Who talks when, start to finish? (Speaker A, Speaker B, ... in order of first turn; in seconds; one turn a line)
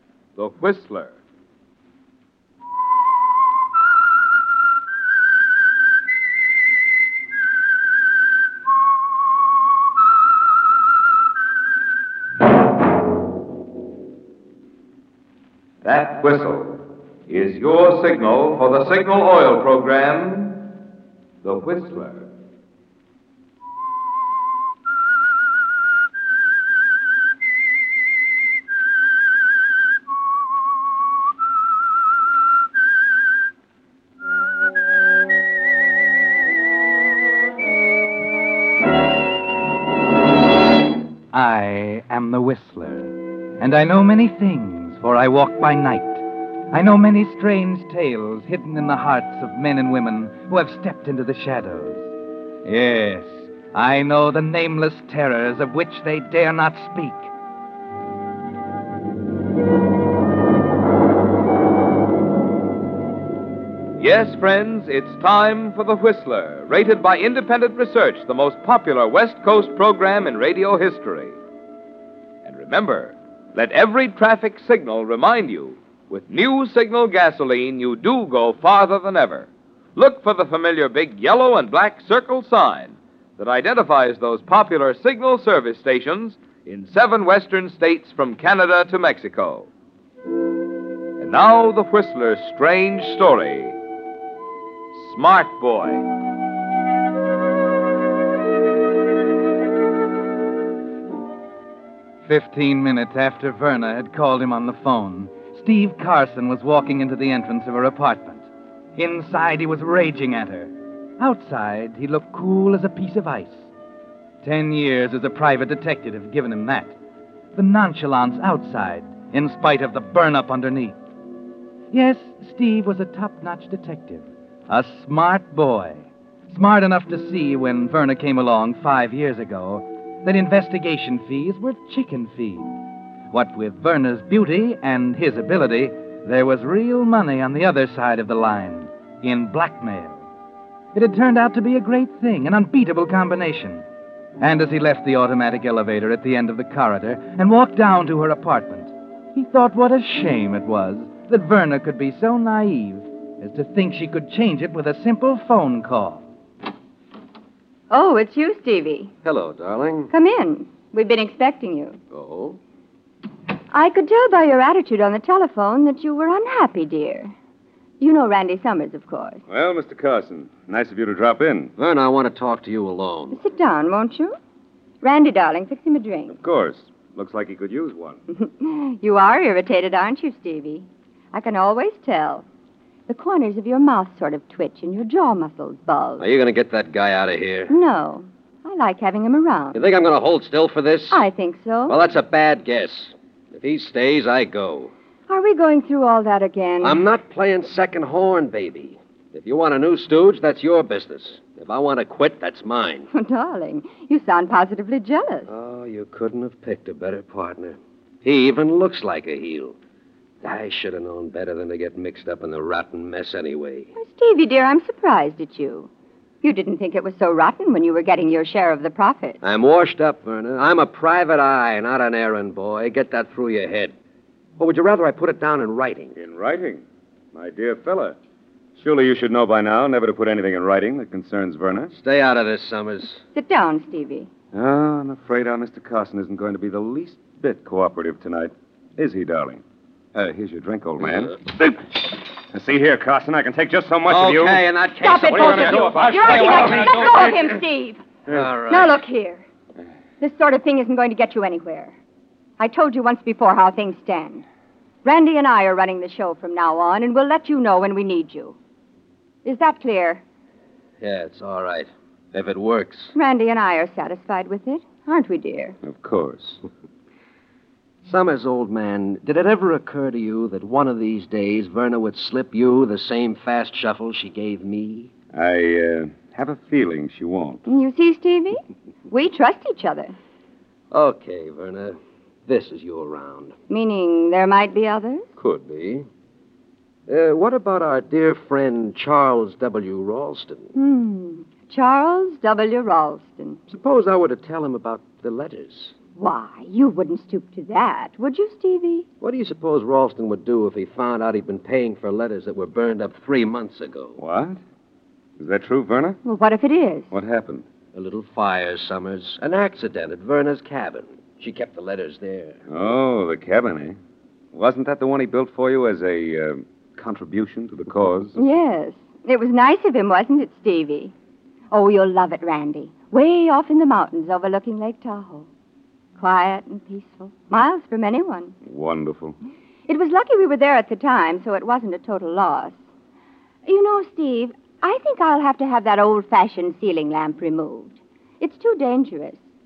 Speaker A: 0.4-1.1
Speaker A: 15.8-20.7
Speaker A: 21.4-22.3
Speaker B: 41.3-52.1
Speaker B: 52.6-57.3
Speaker A: 64.0-71.4
Speaker A: 72.4-89.7
Speaker A: 91.2-93.8
Speaker A: 94.9-96.1
Speaker B: 102.2-113.7
Speaker B: 114.4-117.0
Speaker B: 117.5-121.0
Speaker B: 121.9-132.8
Speaker B: 133.3-140.2
Speaker B: 140.9-143.8
Speaker B: 144.4-156.2
Speaker C: 157.9-159.1
Speaker D: 159.2-160.1
Speaker C: 160.1-162.0
Speaker D: 162.1-162.6
Speaker C: 163.7-167.3
Speaker C: 168.0-169.4
Speaker E: 169.5-171.7
Speaker D: 171.8-173.4
Speaker C: 173.3-174.3
Speaker C: 175.0-176.4
Speaker E: 176.3-178.2
Speaker C: 178.3-182.4
Speaker C: 183.1-186.2
Speaker D: 186.2-187.7
Speaker C: 187.7-189.8
Speaker D: 189.7-191.2
Speaker C: 191.1-192.0
Speaker D: 191.9-194.9
Speaker C: 195.3-197.0
Speaker D: 196.8-203.1
Speaker C: 203.1-205.5
Speaker D: 205.5-209.8
Speaker D: 210.4-213.9
Speaker C: 214.0-215.9
Speaker C: 216.4-219.4
Speaker D: 219.4-223.9
Speaker D: 224.6-226.1
Speaker E: 226.2-226.8
Speaker E: 227.3-228.2
Speaker E: 228.8-231.9
Speaker D: 231.9-233.2
Speaker C: 233.3-234.3
Speaker E: 234.5-239.6
Speaker E: 240.2-244.6
Speaker D: 244.1-247.2
Speaker C: 245.0-248.0
Speaker E: 245.2-247.4
Speaker D: 248.3-249.0
Speaker C: 248.7-249.4
Speaker C: 250.2-251.9
Speaker C: 252.6-254.4
Speaker C: 255.0-258.6
Speaker C: 259.4-260.2
Speaker D: 261.0-263.1
Speaker C: 263.1-265.8
Speaker E: 265.8-266.6
Speaker D: 268.1-275.1
Speaker E: 275.3-277.6
Speaker C: 277.7-280.1
Speaker D: 280.9-283.6
Speaker C: 283.7-285.3
Speaker D: 285.4-286.1
Speaker D: 287.1-290.7
Speaker C: 290.8-293.6
Speaker D: 293.7-295.9
Speaker C: 296.2-299.1
Speaker D: 299.2-304.2
Speaker E: 304.2-304.6
Speaker E: 305.4-306.2
Speaker C: 306.2-307.1
Speaker E: 307.1-307.6
Speaker D: 307.9-312.6
Speaker E: 312.7-314.0
Speaker E: 314.5-318.4
Speaker C: 318.4-321.1
Speaker C: 321.7-325.5
Speaker C: 326.2-328.6
Speaker E: 328.6-329.4
Speaker C: 329.9-332.8
Speaker C: 333.6-339.4